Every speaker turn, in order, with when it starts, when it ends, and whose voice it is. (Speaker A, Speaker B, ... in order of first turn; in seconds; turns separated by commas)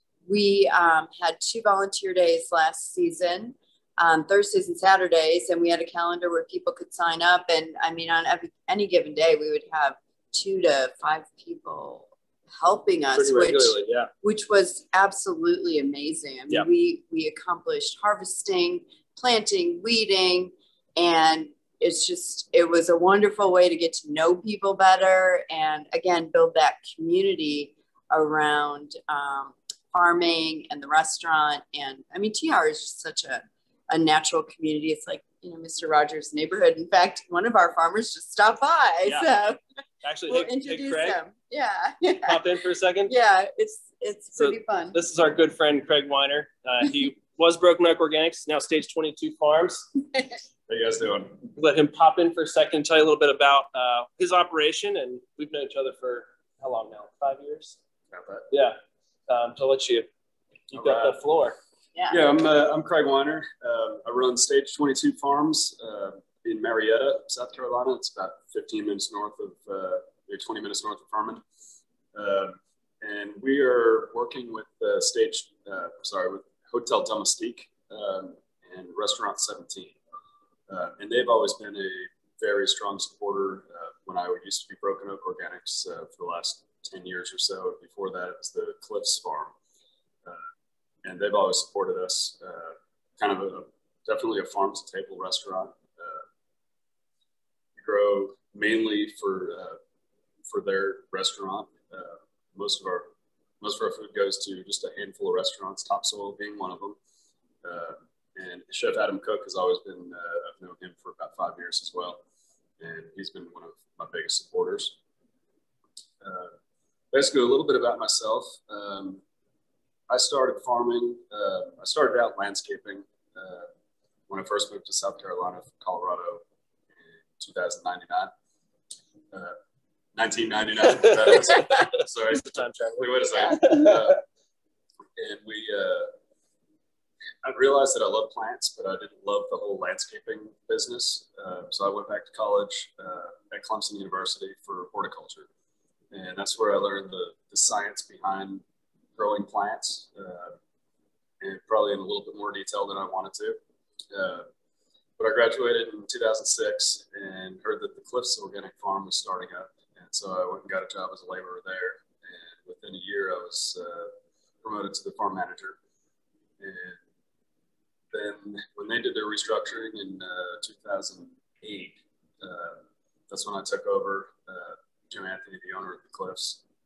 Speaker A: 0.3-39.6, Speaker B: 13.2-14.1, Speaker B: 40.0-41.2, Speaker A: 40.3-42.4, Speaker B: 42.2-43.1, Speaker A: 43.1-45.0, Speaker B: 44.4-49.9, Speaker C: 50.7-51.4, Speaker B: 51.5-57.8, Speaker C: 58.1-58.5, Speaker B: 58.5-58.8, Speaker B: 59.3-60.1, Speaker B: 60.7-61.6, Speaker C: 60.7-61.1, Speaker A: 61.9-62.2, Speaker C: 62.1-71.4, Speaker C: 72.1-80.0, Speaker C: 80.7-89.5, Speaker C: 91.0-96.2, Speaker C: 97.8-99.8, Speaker C: 100.5-103.1, Speaker C: 103.6-107.0, Speaker C: 107.6-112.2, Speaker C: 112.8-115.0, Speaker C: 116.2-116.5, Speaker C: 117.1-119.2, Speaker C: 120.1-123.7, Speaker C: 124.3-126.4, Speaker C: 127.0-128.3, Speaker C: 130.1-134.2, Speaker B: 131.3-134.1, Speaker C: 135.2-136.1, Speaker C: 137.4-145.5, Speaker C: 146.1-148.6, Speaker C: 149.2-150.6, Speaker C: 151.4-153.6, Speaker C: 154.1-154.5, Speaker C: 155.2-165.8, Speaker C: 166.6-167.0, Speaker C: 168.1-176.6